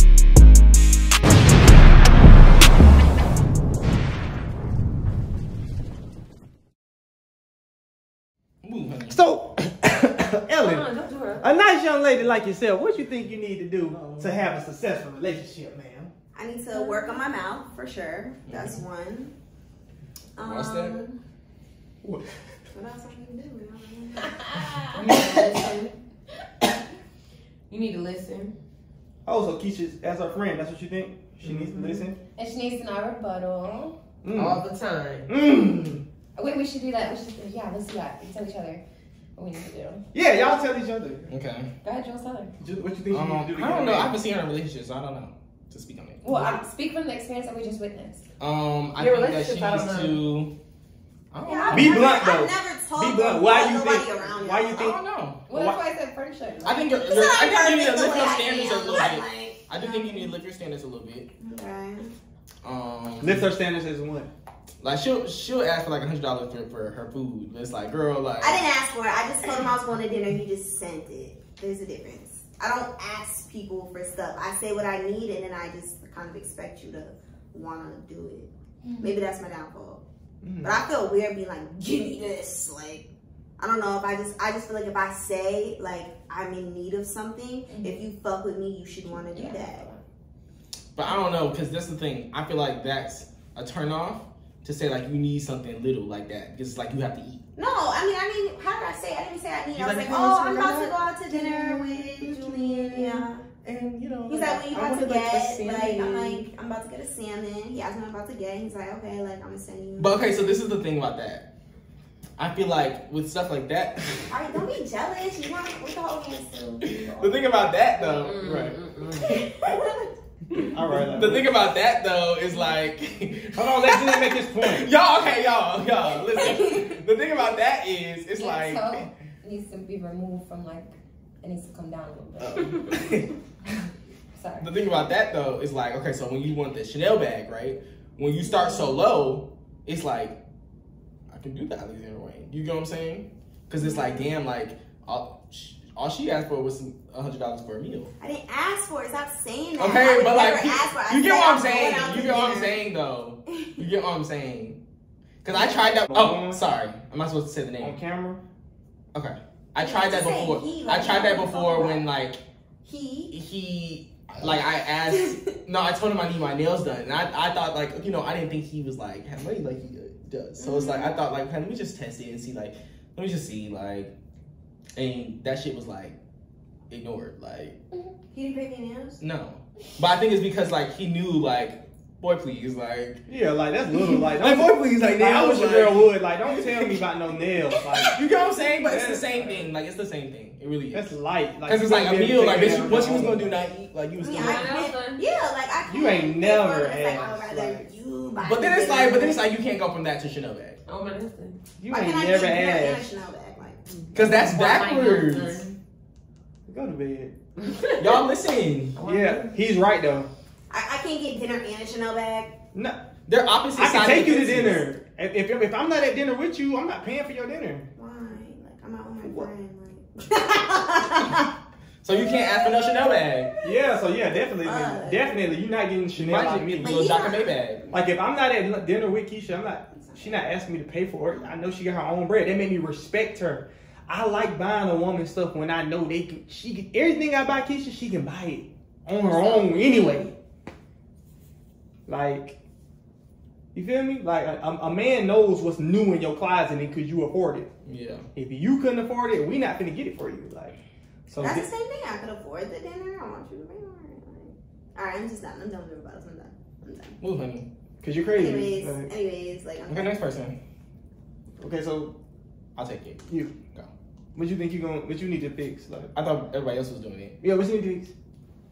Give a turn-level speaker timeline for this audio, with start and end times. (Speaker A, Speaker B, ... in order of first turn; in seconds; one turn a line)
Speaker A: 8.6-9.2
Speaker B: 9.1-10.8
Speaker C: 10.6-11.5
Speaker B: 11.4-16.1
Speaker A: 13.9-14.3
Speaker D: 16.3-19.3
Speaker E: 16.7-17.2
Speaker A: 18.4-18.8
Speaker D: 20.4-21.2
Speaker A: 20.4-21.0
Speaker B: 22.0-22.3
Speaker D: 22.7-24.8
Speaker E: 24.4-24.9
Speaker C: 24.9-25.9
Speaker B: 25.1-25.6
Speaker C: 27.7-28.5
Speaker B: 29.2-32.2
Speaker A: 31.4-31.8
Speaker E: 32.4-34.0
Speaker B: 34.2-34.6
Speaker C: 34.3-35.3
Speaker B: 35.3-36.0
Speaker E: 36.4-38.8
Speaker E: 39.4-40.0
Speaker B: 40.1-41.3
Speaker A: 41.3-41.7
Speaker E: 41.8-42.5
Speaker B: 42.6-44.1
Speaker A: 43.1-46.6
Speaker E: 46.2-48.2
Speaker A: 48.4-50.5
Speaker C: 49.0-50.2
Speaker A: 51.3-52.0
Speaker E: 51.4-52.0
Speaker D: 51.4-55.0
Speaker B: 51.7-55.0
Speaker A: 54.7-55.5
Speaker E: 55.5-56.9
Speaker B: 55.5-55.8
Speaker A: 56.6-61.3
Speaker D: 57.0-60.3
Speaker D: 61.4-62.1
Speaker A: 62.6-63.5
Speaker B: 63.2-64.3
Speaker A: 64.8-68.6
Speaker D: 68.4-80.0
Speaker E: 78.8-79.2
Speaker B: 80.4-80.8
Speaker D: 80.6-83.1
Speaker D: 83.6-89.8
Speaker E: 87.7-88.0
Speaker E: 89.1-90.0
Speaker A: 91.0-97.4
Speaker D: 97.5-103.5
Speaker A: 99.7-106.4
Speaker D: 104.3-110.2
Speaker A: 110.0-111.5
Speaker A: 112.4-114.6
Speaker D: 114.3-117.3
Speaker A: 116.8-120.0
Speaker C: 118.0-119.3
Speaker D: 119.2-120.1
Speaker A: 120.5-129.1
Speaker B: 120.7-121.5
Speaker B: 123.8-124.9
Speaker D: 126.3-127.0
Speaker E: 128.4-132.9
Speaker A: 132.4-133.3
Speaker E: 134.3-134.7
Speaker A: 134.6-140.3
Speaker E: 138.4-139.0
Speaker A: 141.3-148.1
Speaker E: 143.8-144.2
Speaker D: 148.2-152.8
Speaker A: 149.8-154.8
Speaker D: 153.5-153.9
Speaker A: 155.4-157.9
Speaker B: 156.1-156.6
Speaker B: 157.8-158.4
Speaker A: 159.1-162.4
Speaker D: 159.8-162.1
Speaker D: 162.8-163.3
Speaker A: 163.3-174.1
Speaker D: 165.1-165.6
Speaker D: 170.6-171.2
Speaker A: 174.9-176.2
Speaker A: 176.9-177.8
Speaker D: 178.3-179.2
Speaker A: 179.2-183.2
Speaker B: 183.3-188.2
Speaker A: 183.8-187.0
Speaker A: 188.0-191.1
Speaker B: 188.8-189.7
Speaker B: 190.9-193.6
Speaker A: 191.7-194.8
Speaker D: 194.2-199.5
Speaker C: 194.3-195.2
Speaker E: 194.4-195.0
Speaker B: 195.9-197.9
Speaker A: 198.4-200.8
Speaker C: 200.8-201.6
Speaker B: 201.8-203.1
Speaker D: 201.9-203.8
Speaker C: 203.9-205.8
Speaker A: 204.1-205.6
Speaker B: 206.7-207.3
Speaker C: 207.6-208.2
Speaker A: 208.0-209.0
Speaker C: 208.9-209.6
Speaker B: 209.0-210.3
Speaker D: 210.7-212.5
Speaker B: 212.7-213.0
Speaker A: 213.3-214.8
Speaker B: 213.8-217.9
Speaker D: 217.9-221.5
Speaker B: 219.2-219.5
Speaker A: 222.0-223.5
Speaker D: 222.2-223.7
Speaker B: 223.6-227.0
Speaker D: 224.5-225.3
Speaker A: 226.2-227.8
Speaker D: 226.8-227.6
Speaker B: 227.9-240.3
Speaker E: 239.3-240.2
Speaker B: 242.1-242.6
Speaker B: 243.7-247.7
Speaker A: 247.8-248.3
Speaker B: 248.3-250.7
Speaker B: 251.3-251.6
Speaker D: 251.4-257.2
Speaker A: 257.2-257.7
Speaker B: 258.0-259.1
Speaker D: 258.3-260.1
Speaker A: 259.9-260.6
Speaker B: 261.6-262.1
Speaker A: 262.8-263.9
Speaker B: 263.3-263.6
Speaker B: 264.3-266.1
Speaker A: 266.1-267.4
Speaker B: 267.4-268.1